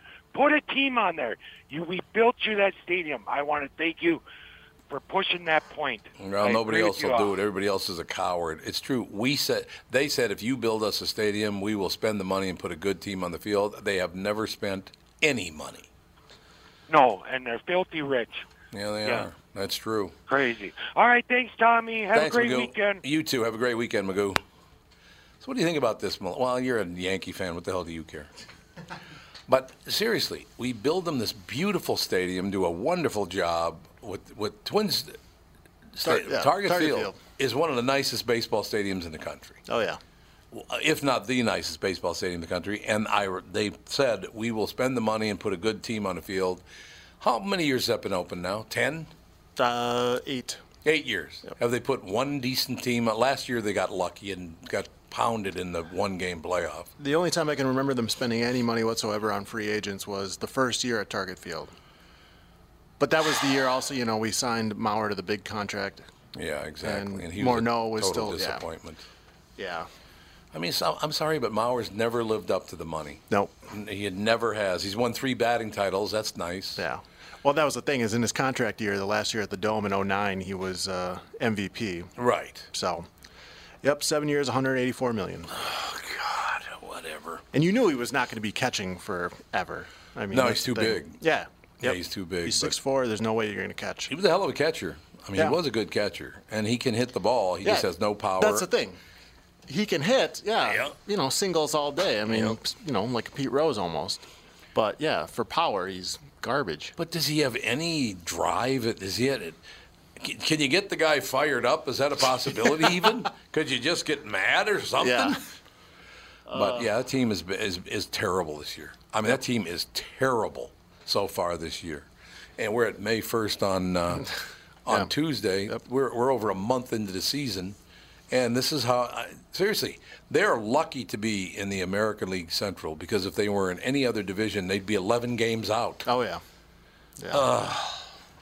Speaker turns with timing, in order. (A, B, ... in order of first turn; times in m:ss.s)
0:00.3-0:04.2 A
0:04.9-0:07.3 A
0:06.2-0:15.9 B
0:16.9-0:18.4 A
0:18.7-0:20.2 B
0:20.3-0:23.0 A
0:22.1-0:24.4 B
0:25.4-0:28.3 B
0:29.5-0:35.2 B
0:35.9-0:39.6 B
0:36.0-0:37.2 C
0:39.7-0:40.0 C
0:40.5-0:46.6 B
0:47.2-0:49.1 B
0:49.6-0:50.6 C
0:50.8-0:56.9 B
0:57.0-1:01.7 C
1:03.0-1:06.1 C
1:06.3-1:09.0 B
1:06.8-1:08.6 C
1:09.6-1:09.9 C
1:10.5-1:16.8 B
1:16.8-1:22.1 C
1:22.2-1:22.7 B
1:22.7-1:23.1 C
1:23.8-1:25.6 C
1:25.5-1:27.4 B
1:27.5-1:34.1 C
1:30.3-1:31.2 B
1:31.8-1:32.8 B
1:34.1-1:38.7 B
1:38.4-1:39.0 C
1:39.7-1:44.2 C
1:40.6-1:40.9 B
1:42.3-1:42.6 B
1:44.8-1:46.9 C
1:47.0-1:49.6 B
1:50.2-1:55.4 B
1:55.0-1:55.4 C
1:56.5-1:56.8 C
1:56.5-2:04.3 B
2:04.8-2:07.8 B
2:08.3-2:16.1 B
2:16.1-2:16.4 C
2:17.2-2:17.4 C
2:17.3-2:18.0 B